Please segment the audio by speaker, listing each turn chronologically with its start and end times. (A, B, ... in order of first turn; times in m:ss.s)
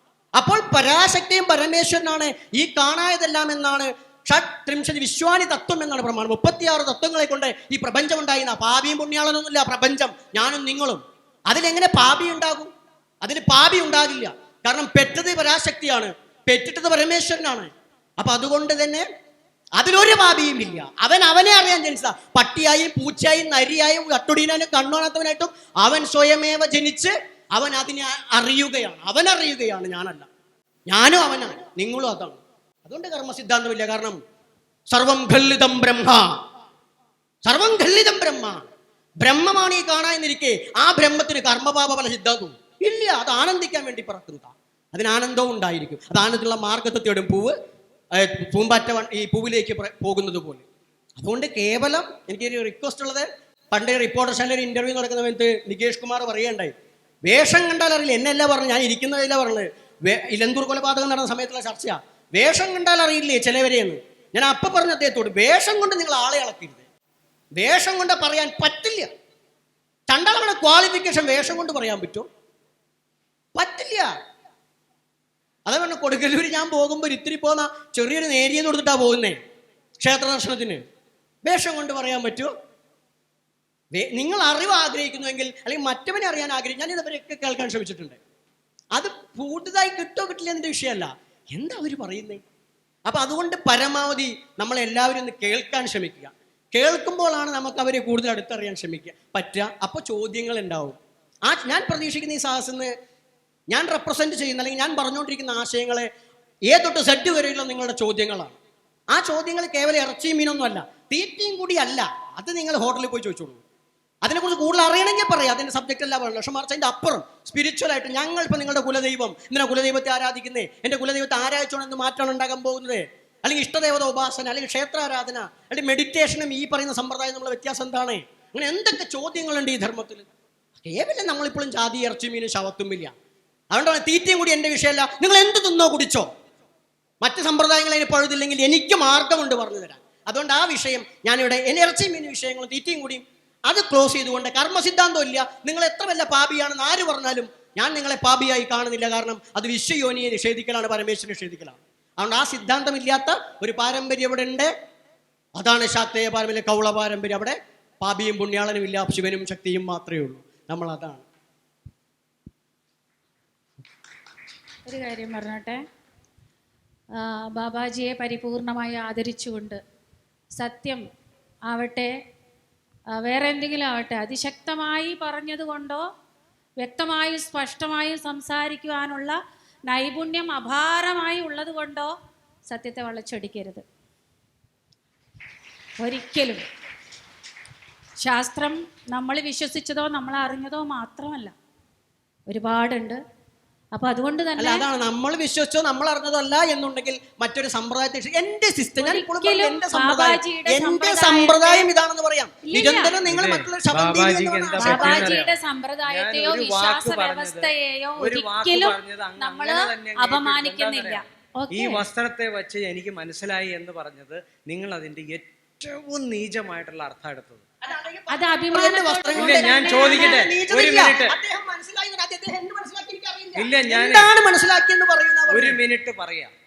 0:00.4-0:12.7 A
0:13.2-0:19.1 A
0:19.8-0:30.3 A
0:30.9-0:34.2 A
0:34.9-0:36.4 A
0:37.5-0:38.7 A
0:39.2-0:47.5 A
0:48.2-0:50.6 A
0:51.2-0:56.7 A
0:57.3-1:06.9 A
1:07.6-1:09.1 A
1:10.1-1:12.3 A
1:13.6-1:14.1 A
1:15.7-1:19.4 A
1:20.0-1:20.8 A
1:21.4-1:22.5 A
1:23.9-1:28.2 A
1:29.0-1:32.4 A
1:33.1-1:42.9 A
1:43.7-1:46.1 A
1:46.7-1:48.6 A
1:49.1-1:53.6 A
1:54.2-2:10.3 A
2:10.8-2:13.1 A
2:13.7-2:16.3 A
2:17.2-2:34.7 A
2:35.6-2:41.2 A
2:44.9-2:45.8 B
2:47.2-2:49.8 B
2:50.6-2:51.0 B
2:51.7-2:52.1 B
2:53.1-2:56.0 B
2:56.8-3:02.1 B
3:02.7-3:03.8 B
3:06.0-3:06.6 B
3:08.2-3:11.5 B
3:12.5-3:13.2 B
3:13.9-3:14.8 B
3:14.6-3:25.4 A
3:19.0-3:21.9 B
3:22.7-3:23.2 B
3:23.3-3:25.5 C
3:24.8-3:32.0 B
3:26.1-3:37.7 C
3:37.8-3:45.8 A
3:38.3-3:40.4 B
3:39.4-3:41.4 C
3:43.6-3:44.3 C
3:45.5-3:46.5 C